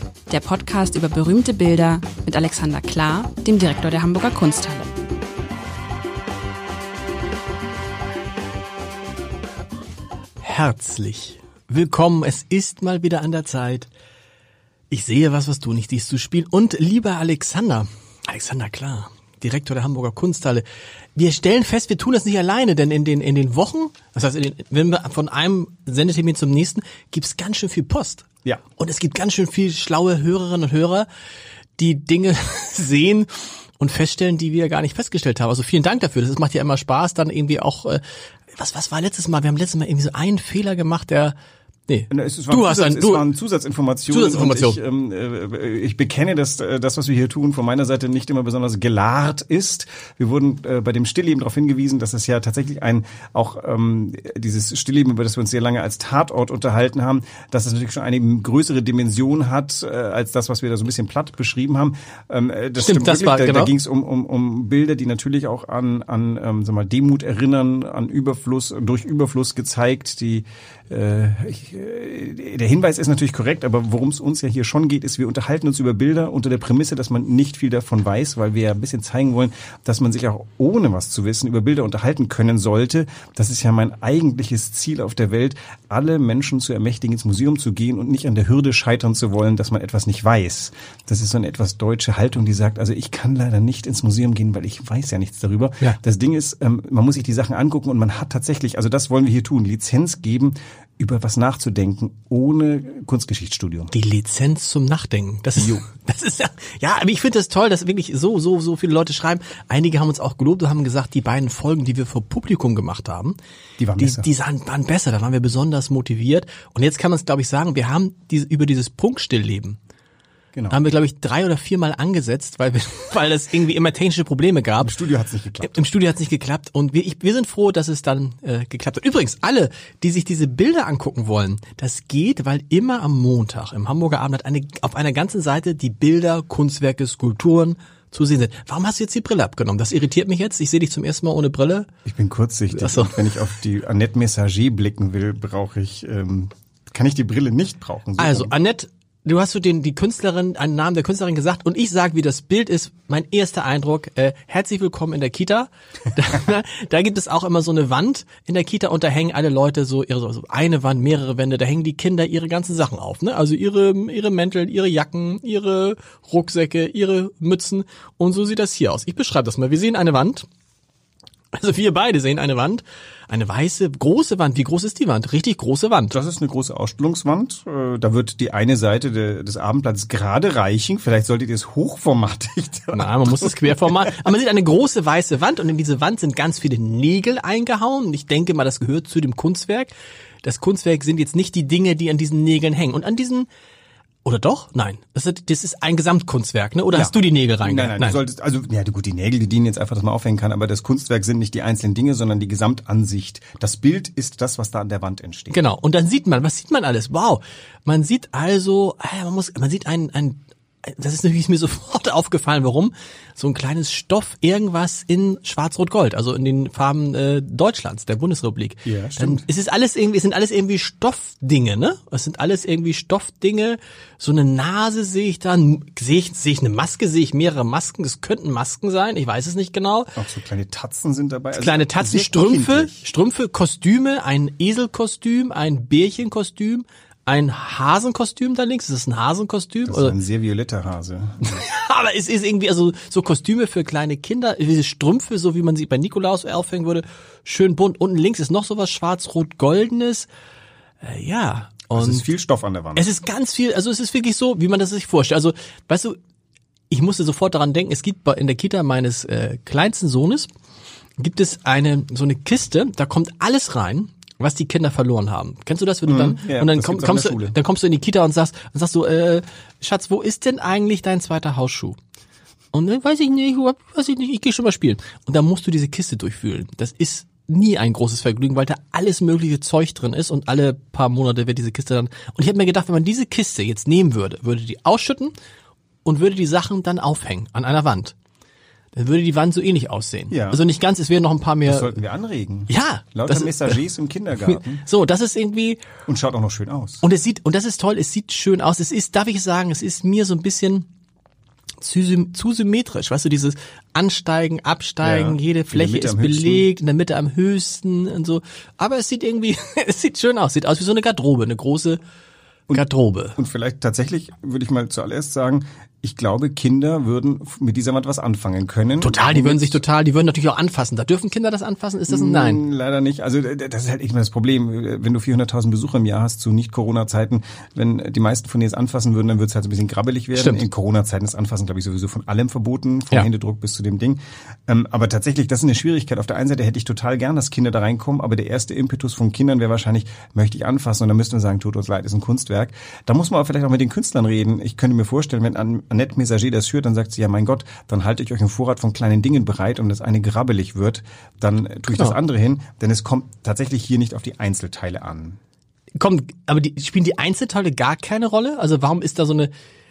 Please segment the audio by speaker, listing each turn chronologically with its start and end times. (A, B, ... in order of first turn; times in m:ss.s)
0:00.3-0:04.9 A
0:10.4-0:13.9 B
0:14.9-0:20.6 B
0:21.2-0:31.1 B
0:31.8-0:38.0 B
0:38.5-0:41.3 B
0:41.9-0:43.2 B
0:42.1-1:43.9 C
0:44.1-0:44.8 B
1:02.8-1:03.7 B
1:43.9-1:53.4 B
1:53.8-1:54.3 C
1:54.0-1:59.8 B
2:00.7-2:05.0 B
2:04.8-2:05.8 C
2:05.6-2:21.9 B
2:22.1-2:28.5 C
2:22.8-2:23.3 B
2:28.2-2:50.5 B
2:51.6-2:56.2 B
2:56.1-3:04.3 C
3:02.9-3:09.9 B
3:10.4-3:13.5 B
3:14.2-3:18.2 B
3:16.9-3:25.6 C
3:25.5-3:50.2 B
3:38.9-3:39.5 C
3:50.2-3:53.1 C
3:51.6-4:00.2 B
3:59.9-4:01.6 C
4:01.4-4:10.3 B
4:11.0-4:12.2 B
4:11.9-4:13.1 C
4:13.0-4:16.2 B
4:16.9-4:20.5 B
4:21.2-4:32.0 B
4:26.1-4:27.6 C
4:32.7-4:45.3 B
4:46.0-4:48.2 B
4:48.9-4:52.0 B
4:50.3-4:50.6 C
4:51.7-4:54.8 C
4:52.7-4:53.8 B
4:54.4-4:55.8 B
4:56.1-4:57.0 C
4:57.0-5:00.9 B
5:01.8-5:12.0 B
5:05.0-5:06.7 C
5:12.7-5:13.4 B
5:13.4-5:19.8 C
5:19.0-5:22.6 B
5:22.1-5:55.4 C
5:56.0-5:59.5 B